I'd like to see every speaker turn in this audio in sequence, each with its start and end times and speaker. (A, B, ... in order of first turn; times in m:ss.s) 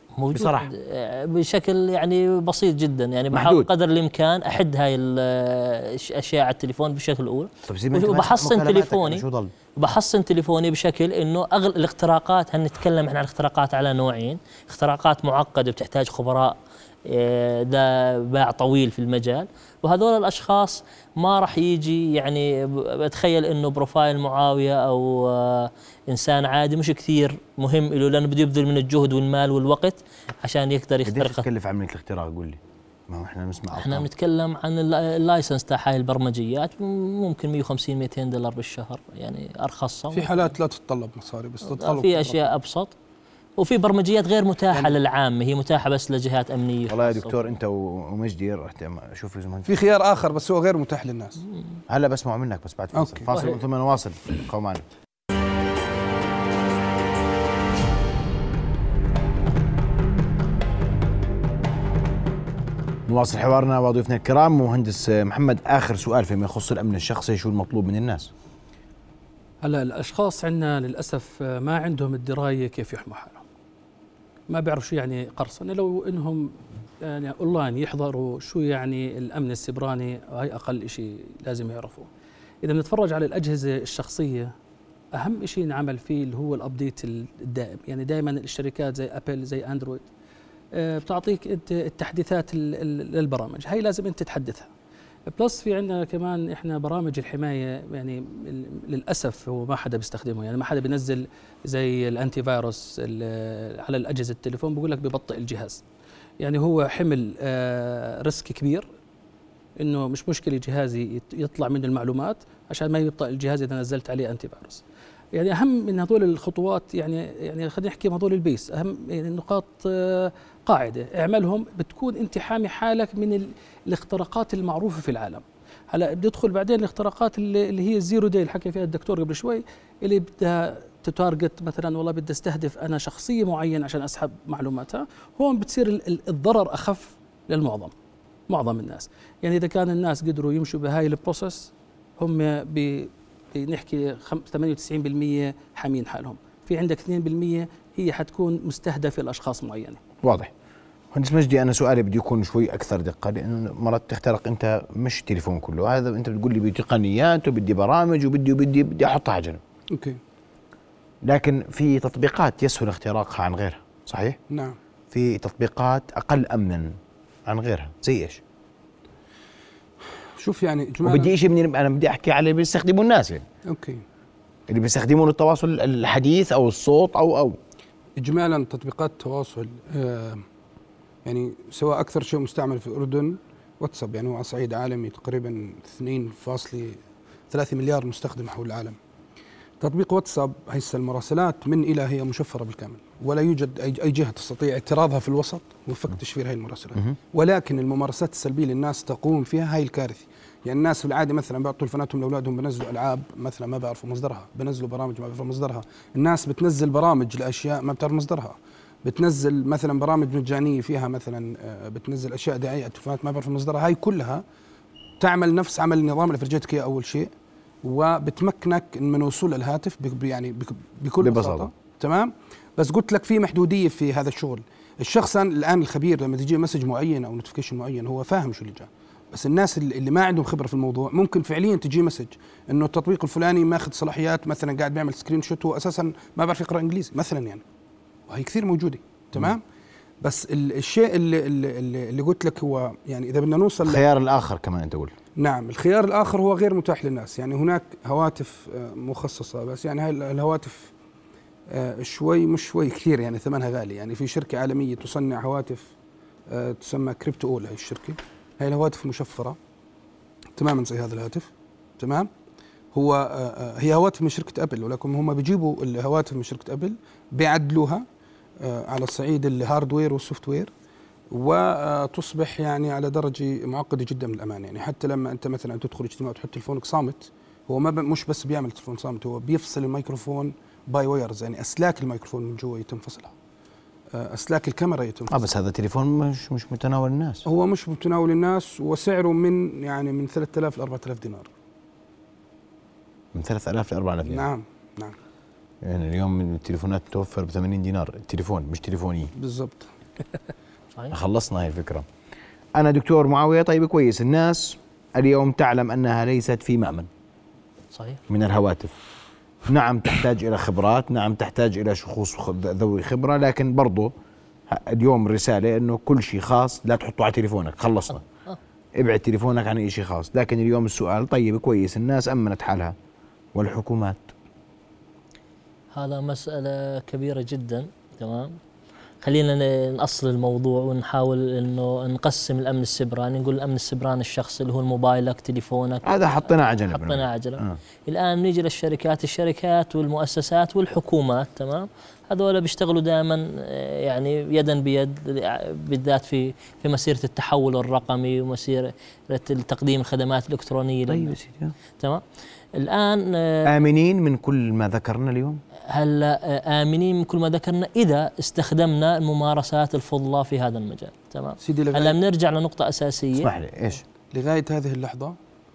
0:00.2-0:09.2 A
0:00.3-0:00.7 B
0:03.3-0:03.7 B
0:07.7-0:09.5 B
0:09.8-0:31.4 A
0:31.0-0:34.1 B
0:33.7-0:40.5 A
0:40.1-0:42.5 C
0:41.6-0:42.9 A
0:43.6-0:47.3 A
0:44.7-0:45.0 C
0:46.9-0:49.8 B
0:49.6-0:51.4 C
0:51.9-0:54.8 B
0:52.9-0:53.3 C
1:03.1-1:08.3 B
1:09.6-1:13.4 D
1:14.5-1:22.1 D
1:22.6-1:24.5 D
1:25.2-1:30.1 D
1:30.7-1:34.7 D
1:35.3-1:45.8 D
1:46.4-1:48.9 D
1:49.8-1:54.8 D
1:55.3-2:17.9 D
2:18.5-2:30.0 D
2:30.2-2:30.5 B
2:31.1-2:39.6 B
2:39.9-2:40.2 C
2:41.2-2:44.4 B
2:44.5-2:44.8 C
2:45.1-2:48.4 B
2:50.4-2:51.3 C
2:51.0-2:53.4 B
2:53.6-2:54.0 C
2:54.7-2:57.6 B
2:58.2-3:00.4 C
3:01.2-3:09.0 C
3:09.8-3:34.4 C
3:35.2-3:37.3 C
3:37.8-3:57.6 C
3:41.2-3:41.7 B
3:58.3-3:59.6 C
4:00.2-4:04.0 C
4:03.8-4:05.1 B
4:05.4-4:10.9 C
4:11.7-4:15.9 C
4:16.5-4:19.6 C
4:20.6-4:22.3 C
4:22.9-4:28.0 C
4:28.6-4:30.7 C
4:31.3-4:43.3 C
4:44.1-4:45.5 C
4:45.3-4:47.4 B
4:47.4-4:51.5 C
4:53.3-4:54.5 B
4:54.2-4:55.2 C
4:55.8-4:59.3 B
4:59.4-4:59.9 C
5:01.1-5:02.0 B
5:02.7-5:07.1 B
5:07.9-5:08.2 A
5:08.3-5:08.9 B
5:09.7-5:14.1 B
5:14.7-5:18.2 B
5:19.0-5:22.9 B
5:23.5-5:24.3 B
5:25.9-5:28.6 A
5:29.2-5:51.3 A
5:36.0-5:37.8 B
5:51.1-5:51.7 B
5:52.0-5:52.2 A
5:52.7-5:53.7 A
5:53.6-5:55.6 B
5:55.9-6:03.5 A
6:01.6-6:02.2 C
6:03.3-6:04.0 B
6:04.3-6:05.4 C